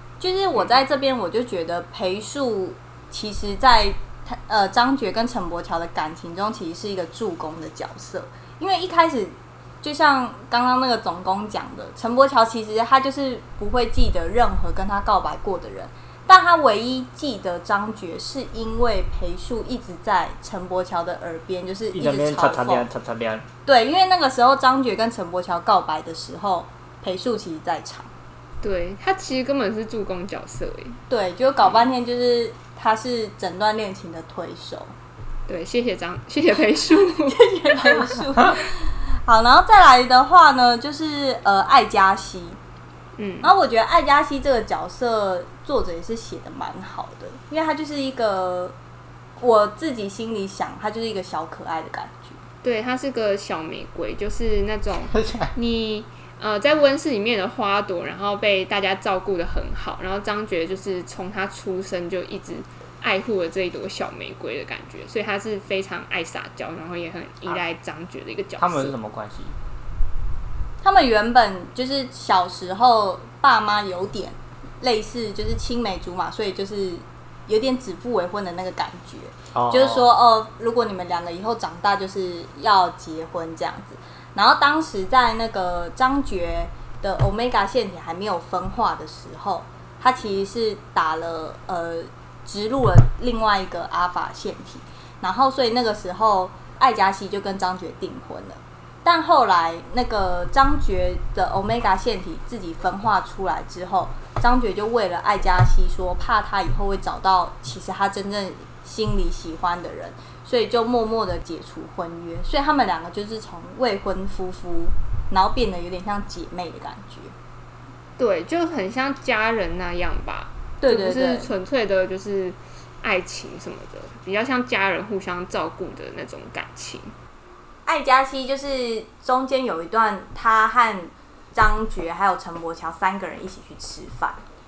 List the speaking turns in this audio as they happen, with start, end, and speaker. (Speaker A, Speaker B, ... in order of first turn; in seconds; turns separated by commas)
Speaker A: 0.2-22.9, Speaker B: 21.9-23.5, Speaker A: 23.6-28.1, Speaker C: 28.6-31.0, Speaker A: 31.1-34.9, Speaker C: 35.5-38.2, Speaker A: 37.3-42.6, Speaker C: 43.1-43.5, Speaker A: 43.4-48.7, Speaker A: 49.4-52.4, Speaker C: 52.6-68.9, Speaker B: 55.1-55.5, Speaker B: 68.6-69.5, Speaker A: 70.8-117.3, Speaker B: 79.5-80.0, Speaker C: 118.2-127.1, Speaker A: 120.8-121.5, Speaker A: 127.8-134.4